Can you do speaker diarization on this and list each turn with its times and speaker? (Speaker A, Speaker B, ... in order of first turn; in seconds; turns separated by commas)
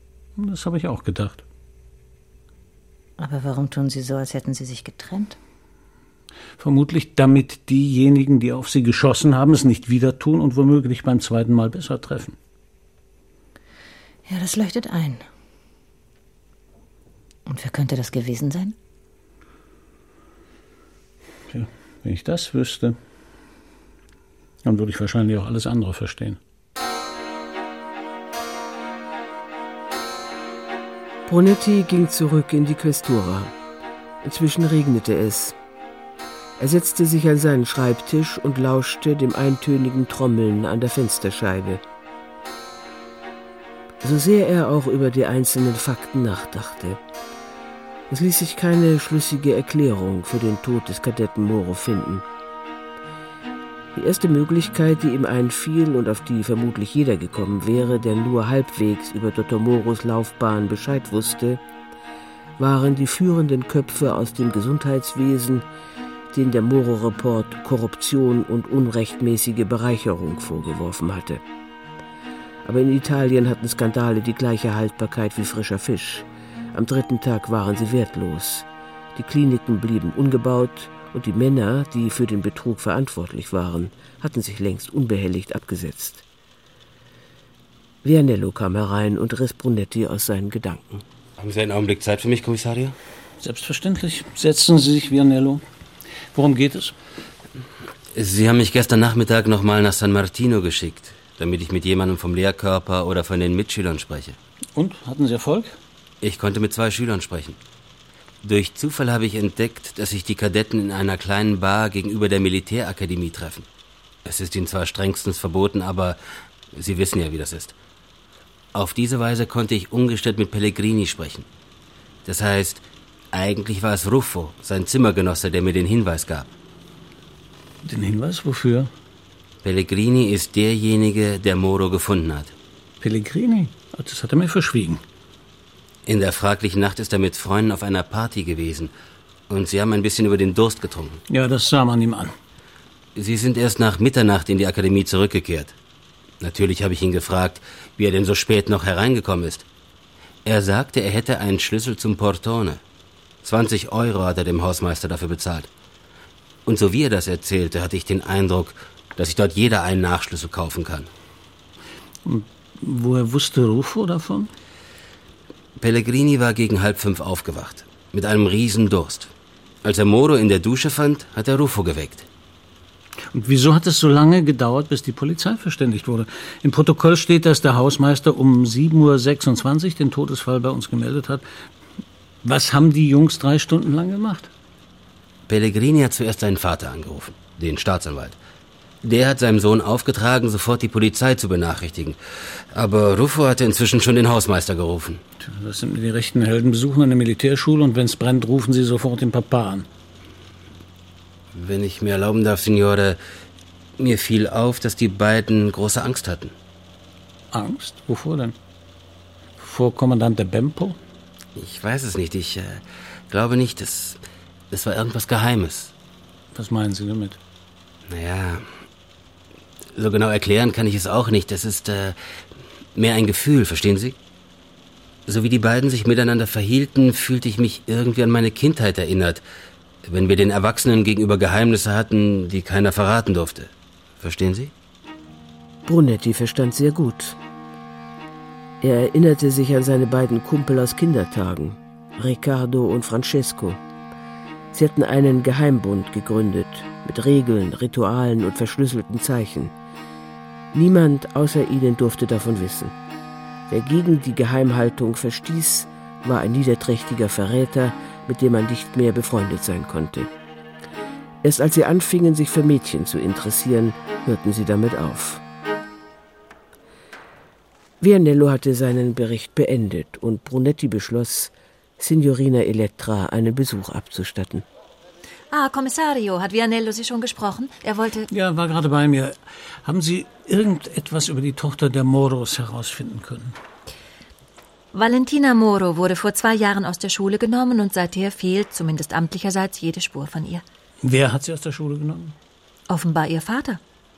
Speaker A: 0.4-1.4, Speaker B: 3.2-5.4, Speaker A: 6.6-12.4, Speaker B: 14.3-15.3, Speaker B: 17.5-18.8, Speaker A: 21.5-23.0, Speaker A: 24.6-26.4, Speaker C: 31.3-33.5, Speaker C: 34.2-35.6, Speaker C: 36.6-41.8, Speaker C: 44.0-47.0, Speaker C: 48.1-52.2, Speaker C: 53.9-61.6, Speaker C: 62.6-65.7, Speaker C: 66.3-71.4, Speaker C: 72.7-86.2, Speaker C: 88.0-91.0, Speaker D: 91.4-93.0, Speaker A: 93.4-95.6, Speaker A: 96.3-97.0, Speaker D: 98.1-104.4, Speaker A: 104.8-105.8, Speaker D: 106.2-107.6, Speaker D: 108.4-113.7, Speaker D: 114.2-116.2, Speaker D: 116.7-117.8, Speaker D: 118.8-121.5, Speaker D: 122.2-126.5, Speaker A: 127.8-128.9, Speaker D: 129.6-132.5, Speaker A: 133.0-135.0, Speaker D: 136.1-138.9, Speaker D: 139.5-141.2, Speaker A: 141.3-142.3, Speaker D: 143.2-145.8, Speaker D: 146.4-149.7, Speaker D: 150.4-152.8, Speaker D: 153.4-155.7, Speaker D: 156.7-161.1, Speaker A: 162.2-164.5, Speaker D: 165.8-169.3, Speaker D: 169.8-172.3, Speaker A: 173.3-181.4, Speaker A: 182.4-184.5, Speaker D: 185.5-188.4, Speaker D: 189.0-195.2, Speaker A: 195.4-199.9, Speaker D: 201.5-203.2, Speaker D: 204.0-206.5, Speaker A: 207.5-208.6, Speaker A: 209.6-211.0, Speaker D: 211.6-215.9, Speaker A: 216.5-217.4, Speaker D: 218.1-218.7, Speaker D: 219.9-222.4, Speaker D: 222.9-224.2, Speaker D: 225.3-229.4, Speaker D: 230.0-234.7, Speaker C: 235.8-237.4, Speaker C: 238.8-243.8, Speaker C: 244.7-249.7, Speaker C: 250.7-252.9, Speaker C: 253.7-260.3, Speaker C: 261.4-265.4, Speaker C: 268.0-274.6, Speaker E: 275.5-278.3, Speaker A: 278.3-283.6, Speaker E: 284.9-290.6, Speaker A: 291.0-292.4, Speaker E: 292.9-293.8